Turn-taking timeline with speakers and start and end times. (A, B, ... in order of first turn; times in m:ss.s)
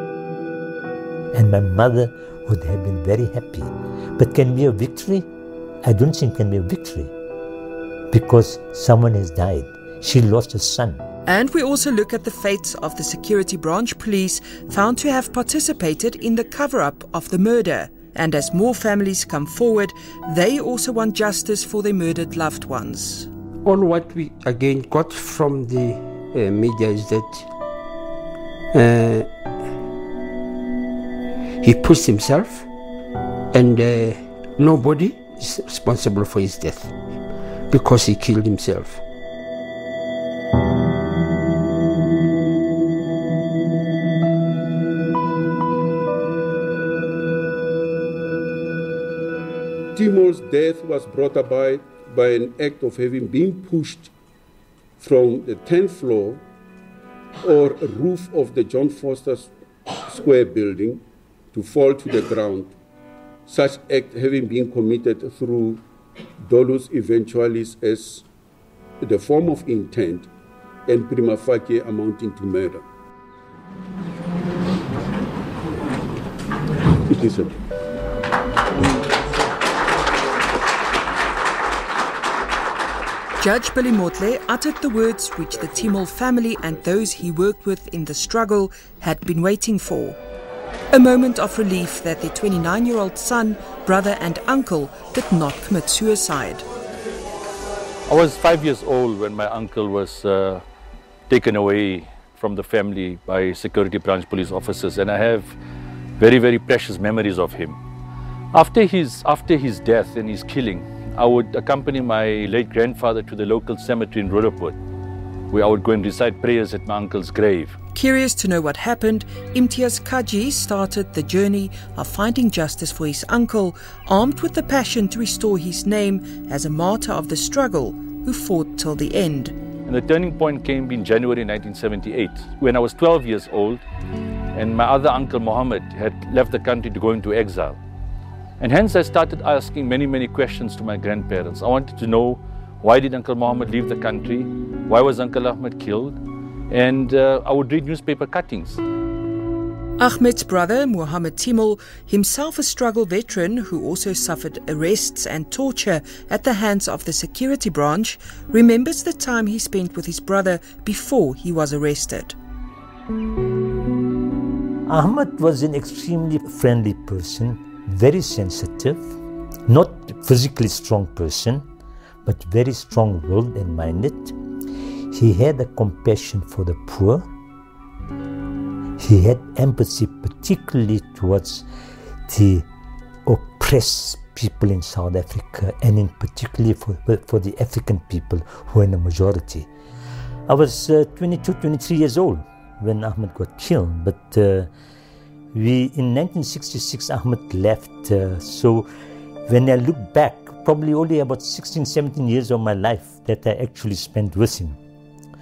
0:01.3-0:05.3 A
0:05.8-0:07.1 A
0:08.1-0:11.0 A
0:11.2-0:23.3 B
0:23.6-0:27.5 C
0:28.7-0:29.3 C
0:31.6-0:32.7 C
0:33.5-0:36.9 C
0:37.7-0:39.0 C
0:49.9-0:54.1 D
0:55.0-0:56.4 D
0:57.4-1:01.0 D
1:01.5-1:02.7 D
1:03.5-1:05.8 D
1:06.4-1:08.2 D
1:09.0-1:10.3 D
1:10.9-1:12.8 D
1:17.0-1:17.5 D
1:23.4-1:30.2 B
1:25.6-1:25.9 D
1:26.6-1:27.2 D
1:30.9-1:36.6 B
1:38.1-1:40.6 E
1:41.3-1:45.6 E
1:46.2-1:47.8 E
1:48.5-1:54.8 E
1:55.5-1:57.8 E
1:57.9-2:09.6 B
2:09.8-2:13.8 E
2:14.5-2:17.8 E
2:18.6-2:28.8 E
2:30.0-2:42.4 B
2:44.9-2:49.1 A
2:49.7-2:51.6 A
2:52.2-2:54.4 A
2:55.1-2:57.3 A
2:59.0-3:01.6 A
3:02.3-3:02.7 A
3:03.2-3:09.7 A
3:10.5-3:14.7 A
3:15.5-3:18.9 A
3:19.5-3:24.8 A